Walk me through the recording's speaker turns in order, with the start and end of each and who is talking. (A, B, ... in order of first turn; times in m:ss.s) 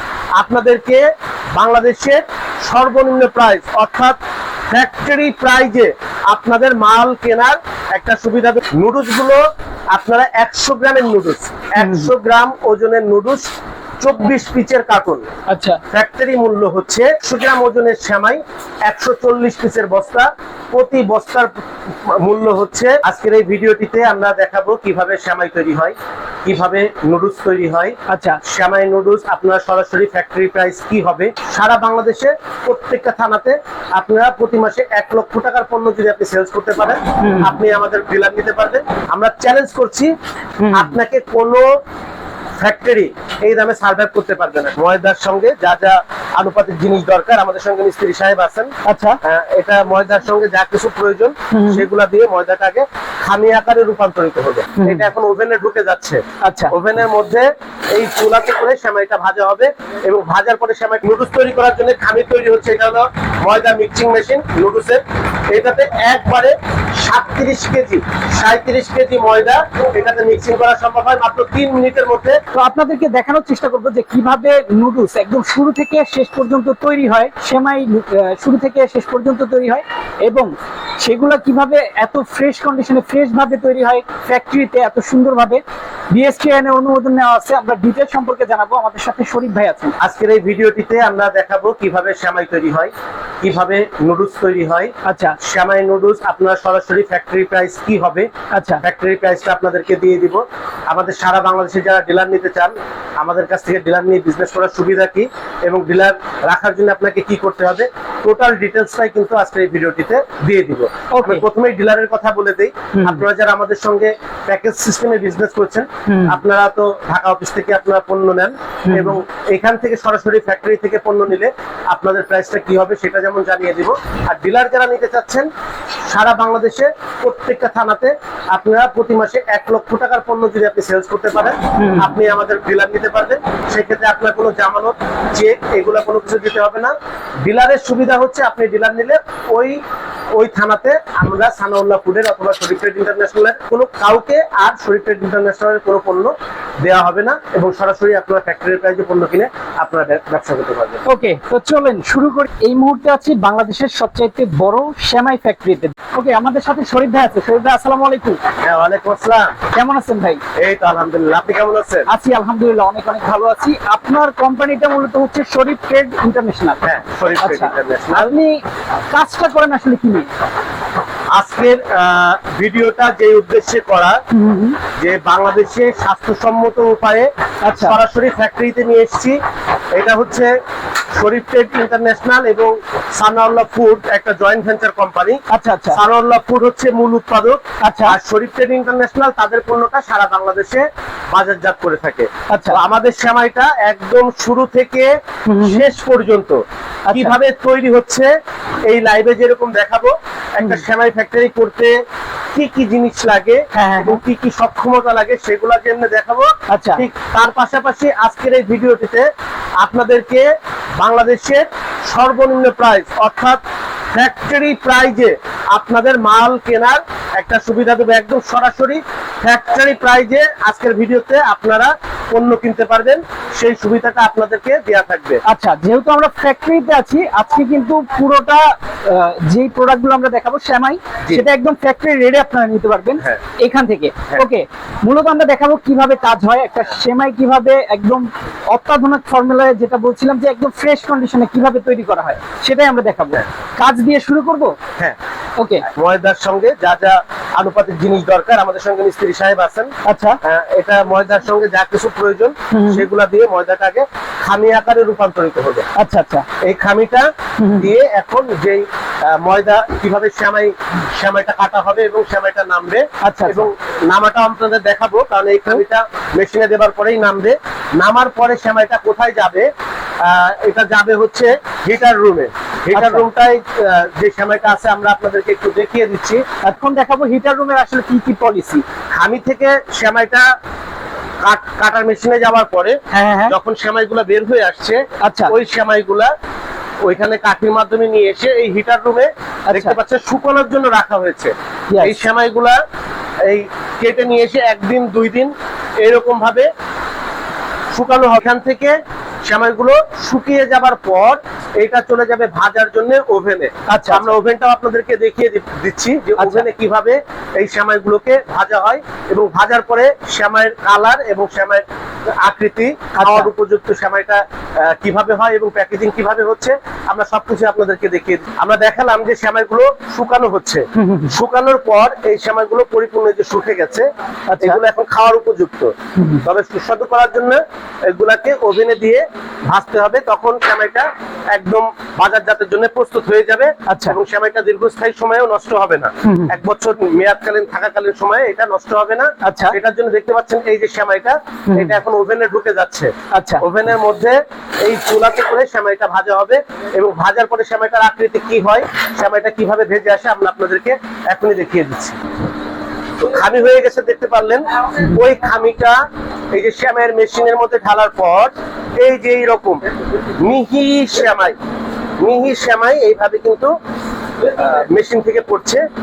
0:00.4-0:04.2 A
0:04.7-0:09.4 A
0:09.9-0:13.5 A
0:11.8-0:12.1 B
0:14.0-0:15.3 A
0:15.5-0:15.8 B
0:15.9-0:21.5 A
0:22.0-0:40.1 A
0:28.1-0:28.4 B
0:37.2-0:37.6 B
0:40.6-0:40.9 B
0:40.7-0:41.7 A
0:42.6-0:48.7 A
0:48.8-0:49.2 B
0:49.2-1:12.4 A
0:51.5-0:51.8 B
0:54.8-0:55.1 B
0:56.4-0:56.7 B
1:12.5-1:30.0 B
1:30.0-1:38.3 A
1:35.0-1:35.4 B
1:38.5-1:38.8 B
1:38.8-2:05.5 A
1:51.1-1:51.4 B
1:52.9-1:53.2 B
1:56.1-1:56.4 B
1:58.8-1:59.2 B
2:06.1-2:19.8 A
2:11.8-2:12.2 B
2:20.4-2:31.0 A
2:31.0-2:38.4 B
2:38.6-2:39.6 A
2:39.7-2:40.4 B
2:40.6-2:42.1 A
2:42.1-2:46.8 B
2:46.8-2:48.3 A
2:47.4-2:50.3 B
2:51.3-2:54.2 A
2:54.3-2:54.8 B
2:55.0-2:59.4 A
2:57.6-2:58.0 B
2:59.9-3:00.5 A
3:01.2-3:05.4 A
3:05.5-3:06.0 B
3:05.9-3:16.6 A
3:07.8-3:08.2 B
3:12.5-3:12.8 B
3:15.5-3:15.9 B
3:17.1-3:17.4 B
3:17.1-3:18.3 A
3:18.9-3:22.0 A
3:22.5-3:29.3 A
3:23.7-3:24.2 B
3:26.7-3:27.0 B
3:29.8-3:30.5 A
3:31.0-3:33.6 A
3:34.1-3:45.4 A
3:45.4-4:04.8 B
4:05.6-4:05.8 B
4:05.9-4:09.9 A
4:10.0-4:10.4 B
4:10.4-4:15.9 A
4:12.7-4:13.0 B
4:16.0-4:16.4 B
4:16.6-4:29.7 A
4:17.6-4:17.9 B
4:23.2-4:23.7 B
4:30.2-4:36.4 A
4:32.9-4:33.3 B
4:36.6-4:38.8 B
4:39.2-4:40.4 A
4:41.4-4:43.0 A
4:43.1-4:43.6 B
4:43.5-4:46.3 A
4:45.2-4:45.5 B
4:47.0-4:52.8 A
4:49.7-4:50.0 B
4:51.9-4:52.2 B
4:53.4-4:56.7 A
4:57.9-5:11.8 A
5:03.9-5:04.3 B
5:06.4-5:06.7 B
5:12.4-5:24.1 A
5:13.2-5:13.5 B
5:21.0-5:21.4 B
5:24.5-5:24.8 B
5:24.6-5:52.2 A
5:26.2-5:26.4 B
5:33.9-5:34.2 B
5:36.2-5:36.5 B
5:39.4-5:39.8 B
5:41.7-5:42.0 B
5:43.3-5:43.6 B
5:53.2-5:56.0 A
5:56.5-5:59.8 A
6:00.4-6:01.6 A
6:02.2-6:03.7 A
6:04.4-6:05.8 A